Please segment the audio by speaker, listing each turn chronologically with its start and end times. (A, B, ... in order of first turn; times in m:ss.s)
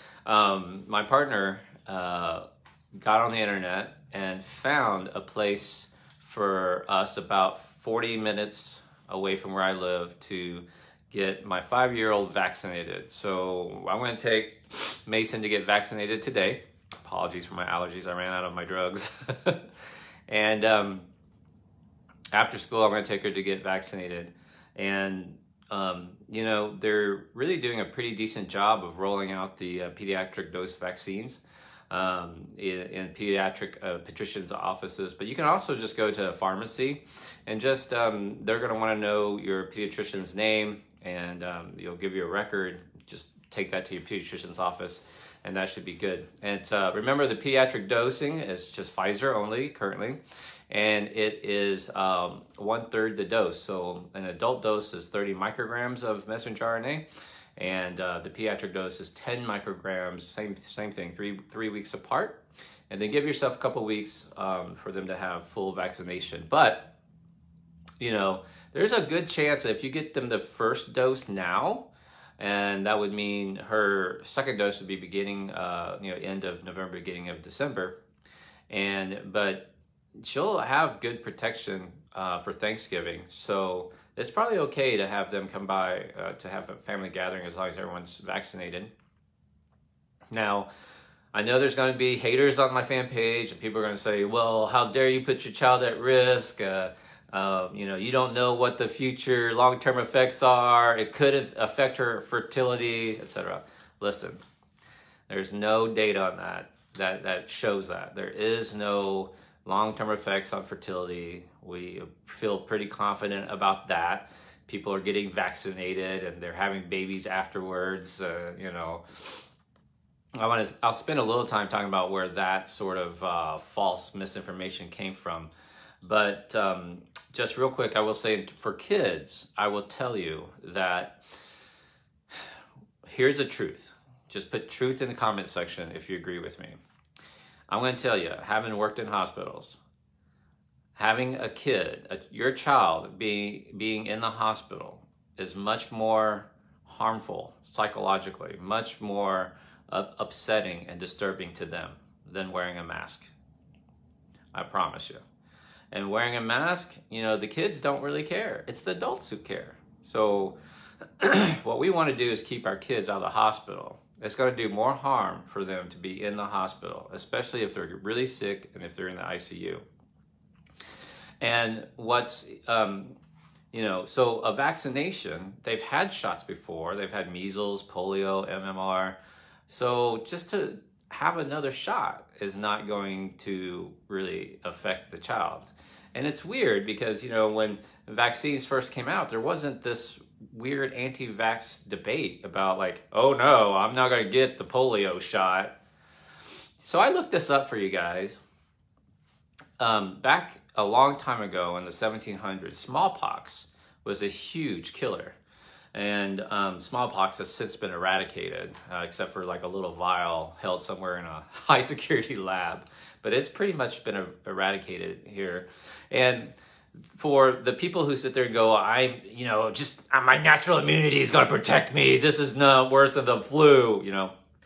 0:00.2-0:02.4 A
0:03.0-0:19.7 A
0:20.3-0:21.1 A
0:22.3-0:57.0 A
0:57.6-1:06.9 A
1:08.0-1:11.9 A
1:12.4-1:18.0 A
1:18.7-1:28.9 A
1:30.3-1:30.7 A
1:31.3-1:44.4 A
1:45.3-1:59.4 A
2:00.4-2:05.5 A
2:06.0-2:11.2 A
2:13.0-2:16.8 A
2:17.7-2:19.8 A
2:21.0-2:33.3 A
2:34.5-2:35.2 A
2:35.9-2:40.6 A
2:41.2-2:49.8 A
2:51.4-2:53.2 A
2:53.7-3:15.8 A
3:16.8-3:18.4 A
3:19.8-3:25.4 A
3:25.9-3:36.5 A
3:37.1-3:44.3 A